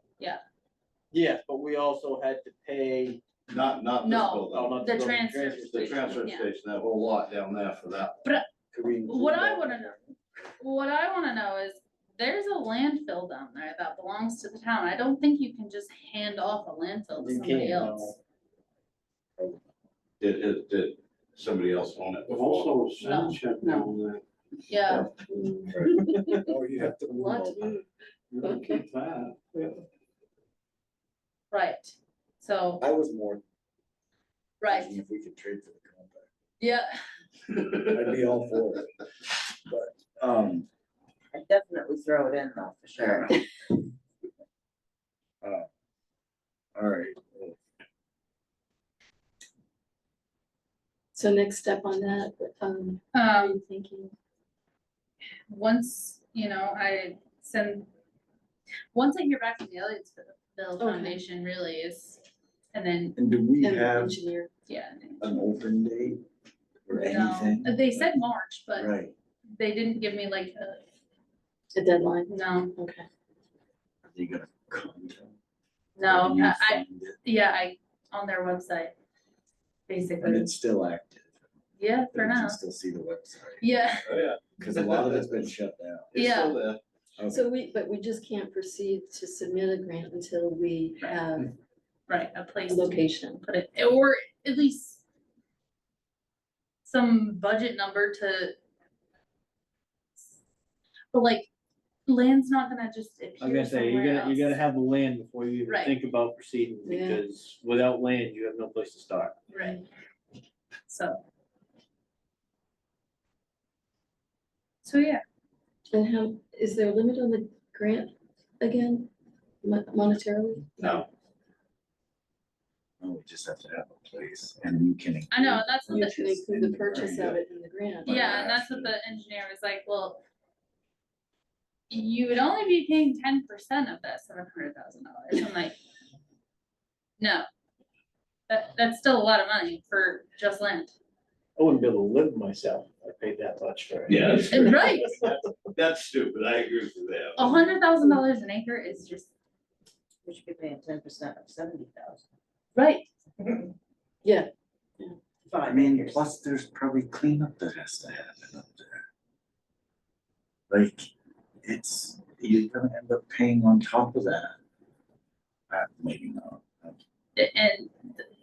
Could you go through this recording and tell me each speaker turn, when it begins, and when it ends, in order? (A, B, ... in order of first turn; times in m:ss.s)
0:01.1-0:03.2 A
0:03.5-0:04.8 B
0:04.0-0:06.5 C
0:04.5-0:06.2 A
0:05.7-0:08.2 B
0:08.7-0:10.0 D
0:09.1-0:10.0 C
0:10.6-0:18.2 C
0:17.2-0:18.2 A
0:20.2-0:22.9 B
0:22.3-0:24.1 E
0:23.0-0:23.9 C
0:24.7-0:25.1 C
0:25.3-0:26.5 F
0:25.7-0:27.8 D
0:27.1-0:27.9 F
0:28.4-0:29.3 E
0:28.4-0:28.8 F
0:31.5-0:32.8 C
0:32.8-0:33.4 D
0:34.6-0:35.0 C
0:34.6-0:36.3 D
0:36.6-0:37.0 C
0:37.8-0:38.9 D
0:39.7-0:40.7 D
0:41.3-0:43.3 G
0:45.4-0:45.7 D
0:46.8-0:47.6 D
0:51.1-0:54.1 F
0:53.1-0:53.6 C
0:55.5-0:57.9 C
0:58.9-1:02.2 C
1:00.8-1:01.2 F
1:02.7-1:03.2 C
1:03.2-1:04.2 D
1:03.6-1:04.5 F
1:04.7-1:05.2 C
1:05.2-1:06.2 D
1:06.8-1:08.1 D
1:07.0-1:08.9 C
1:08.7-1:09.1 D
1:09.5-1:10.8 C
1:11.7-1:13.1 F
1:12.3-1:12.8 C
1:14.1-1:15.3 D
1:16.0-1:18.9 C
1:16.0-1:17.2 D
1:19.9-1:20.6 C
1:20.2-1:21.3 D
1:21.8-1:22.6 C
1:22.1-1:24.0 D
1:23.6-1:24.2 C
1:24.0-1:25.3 B
1:24.6-1:26.0 D
1:26.1-1:26.8 B
1:26.1-1:26.6 C
1:27.2-1:27.4 D
1:27.3-1:31.5 F
1:32.1-1:35.0 C
1:32.7-1:33.4 F
1:36.8-1:38.5 C
1:41.1-1:41.5 C
1:42.1-1:44.6 C
1:43.4-1:49.4 A
1:45.7-1:46.0 C
1:46.8-1:47.2 F
1:49.5-1:49.8 C
1:50.9-1:51.2 C
1:54.8-1:55.2 C
1:55.9-1:59.1 F
1:59.6-2:01.1 F
2:03.0-2:07.4 D
2:05.3-2:06.4 C
2:05.9-2:08.5 F
2:08.0-2:08.9 B
2:08.0-2:10.2 C
2:11.9-2:15.8 C
2:17.2-2:17.4 C
2:18.5-2:20.9 C
2:21.6-2:25.4 A
2:24.1-2:25.2 B
2:24.5-2:25.2 C
2:25.7-2:27.5 B
2:27.4-2:29.3 C
2:27.6-2:28.2 F
2:30.2-2:32.2 G
2:32.7-2:33.6 C
2:34.2-2:35.2 F
2:35.5-2:36.3 G
2:35.6-2:39.0 D
2:40.7-2:41.1 D
2:41.6-2:44.6 D
2:45.7-2:47.0 D
2:47.4-2:48.2 C